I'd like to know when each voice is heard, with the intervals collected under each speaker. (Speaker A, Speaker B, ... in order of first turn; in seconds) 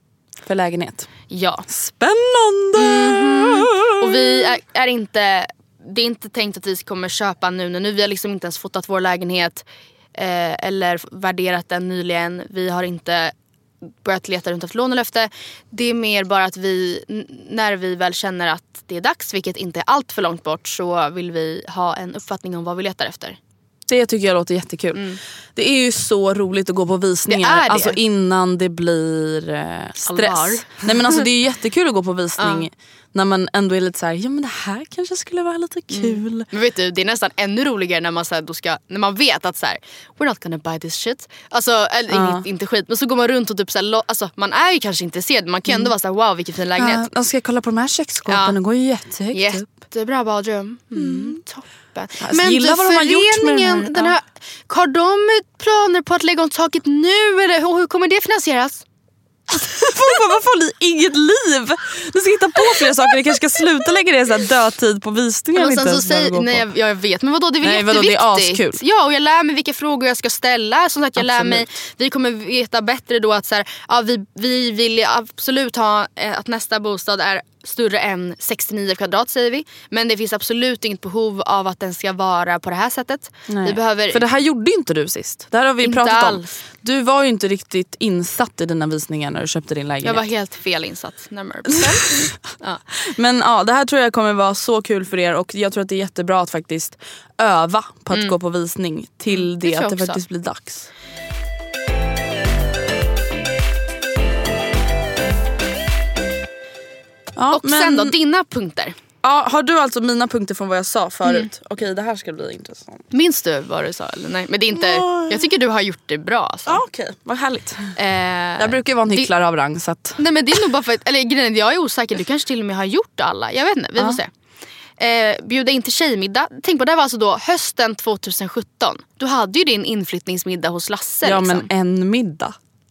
Speaker A: 0.4-1.1, 1.7-4.4, 23.9-25.0, 25.6-36.5, 42.1-42.5, 46.8-49.6, 51.0-51.4, 52.2-54.1, 59.5-66.7, 67.6-68.8, 71.2-71.7, 83.5-90.2, 91.7-92.3, 93.0-100.9, 107.4-108.1, 109.2-113.0, 114.7-115.5, 116.7-117.9, 118.6-120.2, 131.2-132.6
Speaker B: 1.3-1.7, 2.8-9.6, 10.1-13.3, 14.0-23.4, 24.9-25.2, 27.3-28.0, 30.1-31.2, 32.4-32.7, 35.9-47.0, 48.3-48.6, 49.3-58.8, 65.5-84.2, 85.8-86.5, 90.0-92.8, 98.1-98.4, 99.3-100.2, 107.5-109.0, 113.1-116.8, 118.0-119.3, 120.2-124.3, 125.0-131.7